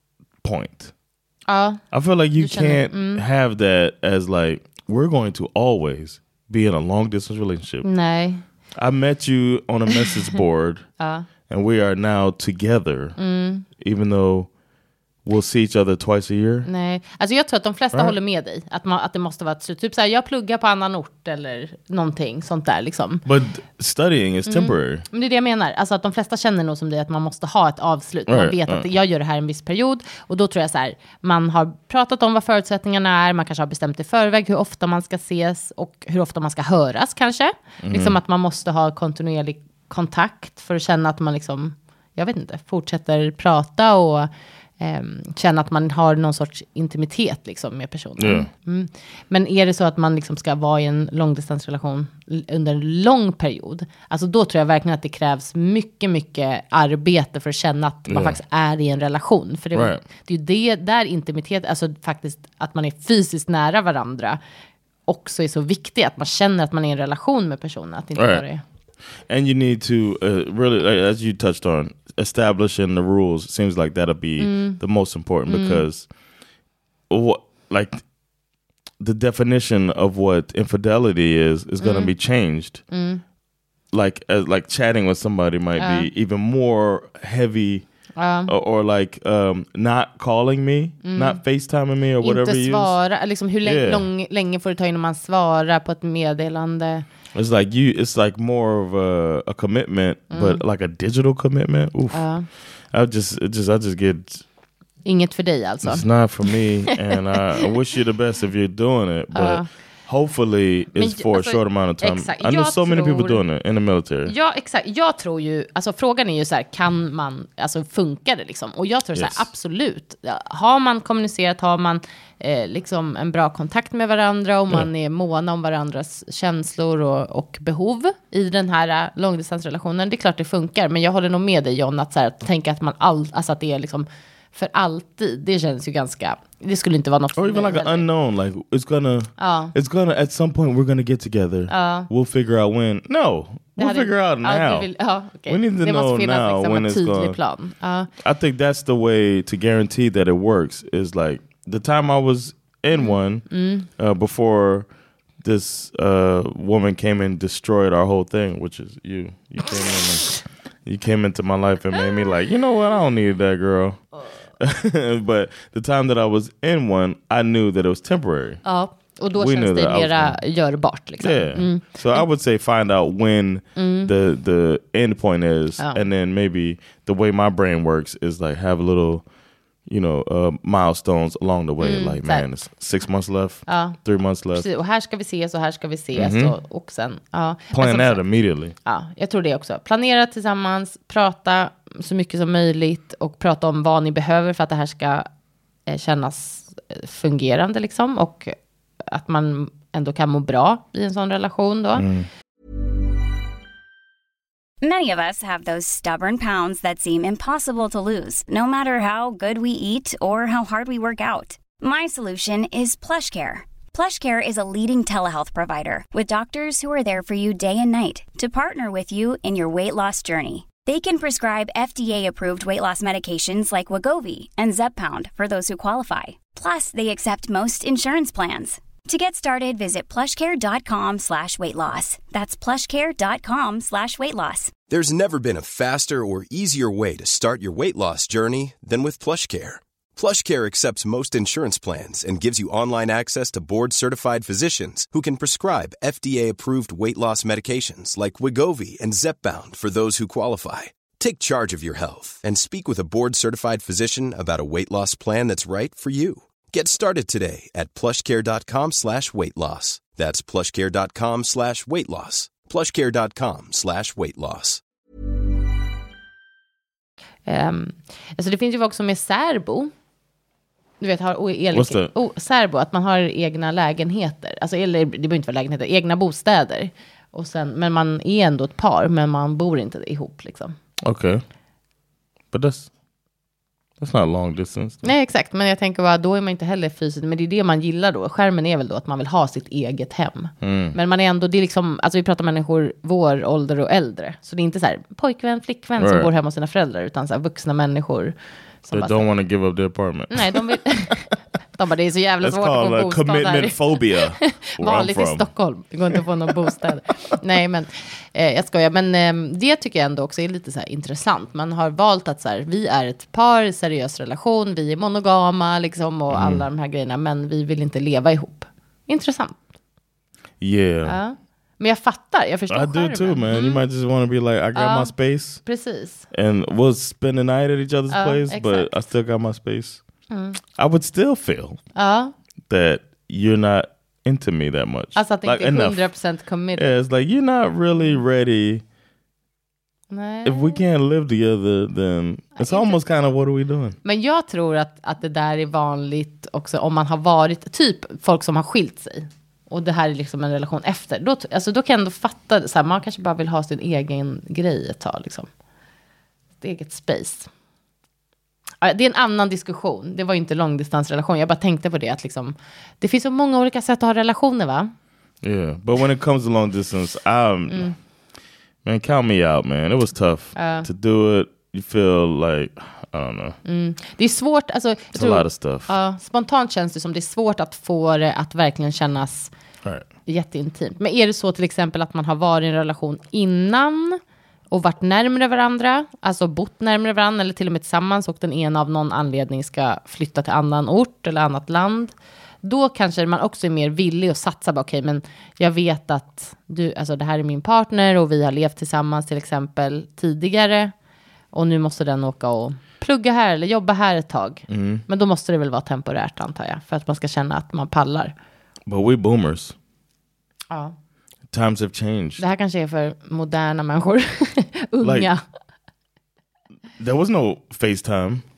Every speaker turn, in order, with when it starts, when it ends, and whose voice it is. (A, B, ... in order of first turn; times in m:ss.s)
0:00.4-0:00.9 A
0:01.5-0:01.8 B
0:01.9-0:07.9 A
0:02.3-0:03.2 B
0:07.8-0:08.4 B
0:08.8-0:10.9 A
0:11.0-0:11.3 B
0:11.5-0:13.2 A
0:13.2-0:13.7 B
0:13.7-0:14.5 A
0:15.2-0:16.7 A
0:16.6-0:23.2 B
0:23.2-0:25.0 A
0:24.5-1:04.4 B
0:28.3-0:28.9 A
0:37.8-0:38.2 A
0:48.2-0:48.5 A
0:58.1-0:58.4 A
0:59.7-1:00.0 A
1:05.1-1:08.6 B
1:08.2-1:08.4 A
1:09.2-1:16.1 A
1:14.4-1:14.8 B
1:15.5-1:15.8 B
1:17.1-1:18.0 A
1:19.0-1:22.8 A
1:21.8-1:22.2 B
1:22.9-1:23.2 B
1:23.9-1:27.8 A
1:25.8-1:26.1 B
1:28.2-1:28.5 B
1:28.5-1:33.0 A
1:31.0-1:31.4 B
1:32.2-1:37.0 B
1:33.6-1:34.1 A
1:37.3-1:44.4 A
1:40.3-1:40.6 B
1:42.1-1:42.5 B
1:45.0-1:46.1 B
1:45.8-1:54.3 A
1:49.4-1:49.7 B
1:51.0-1:53.4 B
1:54.3-2:18.1 B
1:59.2-1:59.5 A
2:17.4-2:24.9 A
2:19.4-2:19.7 B
2:21.7-2:22.1 B
2:23.8-2:28.1 B
2:25.5-2:27.4 A
2:28.2-2:34.9 A
2:32.9-2:33.9 B
2:35.4-2:44.0 A
2:44.6-2:48.6 A
2:48.6-2:52.2 B
2:49.3-2:50.4 A
2:51.2-2:59.3 A
2:53.8-2:54.1 B
2:55.8-2:56.0 B
2:59.8-3:04.7 A
3:01.8-3:02.5 B
3:03.7-3:04.0 B
3:04.5-3:08.3 B
3:06.1-3:06.6 A
3:07.7-3:08.8 A
3:08.8-3:15.3 B
3:15.9-3:18.5 B
3:19.1-3:22.1 B
3:22.0-3:22.3 A
3:24.8-3:54.7 C
3:54.9-4:24.8 D
4:27.5-4:29.9 B
4:31.0-4:40.8 B
4:31.7-4:32.1 A
4:41.0-4:41.4 A
4:42.5-4:42.9 A
4:44.0-4:45.1 A
4:45.0-4:59.2 B
4:50.6-4:51.0 A
4:56.0-4:56.3 A
4:58.9-5:00.6 A
5:00.3-5:19.6 B
5:02.4-5:05.5 A
5:16.3-5:16.6 A
5:20.6-5:21.2 A
5:21.0-5:23.8 B
5:22.7-5:25.7 A
5:24.8-5:26.3 B
5:26.3-5:30.0 A
5:28.1-5:28.9 B
5:30.3-5:30.6 B
5:30.8-5:31.8 A
5:32.0-5:32.3 B
5:32.7-5:36.1 A
5:35.1-5:37.0 B
5:36.8-5:38.8 A
5:38.0-5:38.2 B
5:40.1-5:40.8 B
5:40.4-5:44.0 A
5:42.6-5:43.0 B
5:44.0-5:55.5 B
5:56.6-5:57.5 B
5:58.8-6:04.9 B
6:05.4-6:07.9 A
6:08.8-6:13.6 A
6:10.6-6:10.9 B
6:13.6-6:19.5 B
6:15.2-6:15.9 A
6:20.3-6:24.2 B
6:24.7-6:40.9 B
6:41.5-6:48.3 B
6:44.7-6:45.0 A
6:48.9-6:49.8 A
6:51.5-6:52.4 A
6:52.4-6:55.4 B
6:55.0-6:55.3 A
6:57.0-6:58.4 A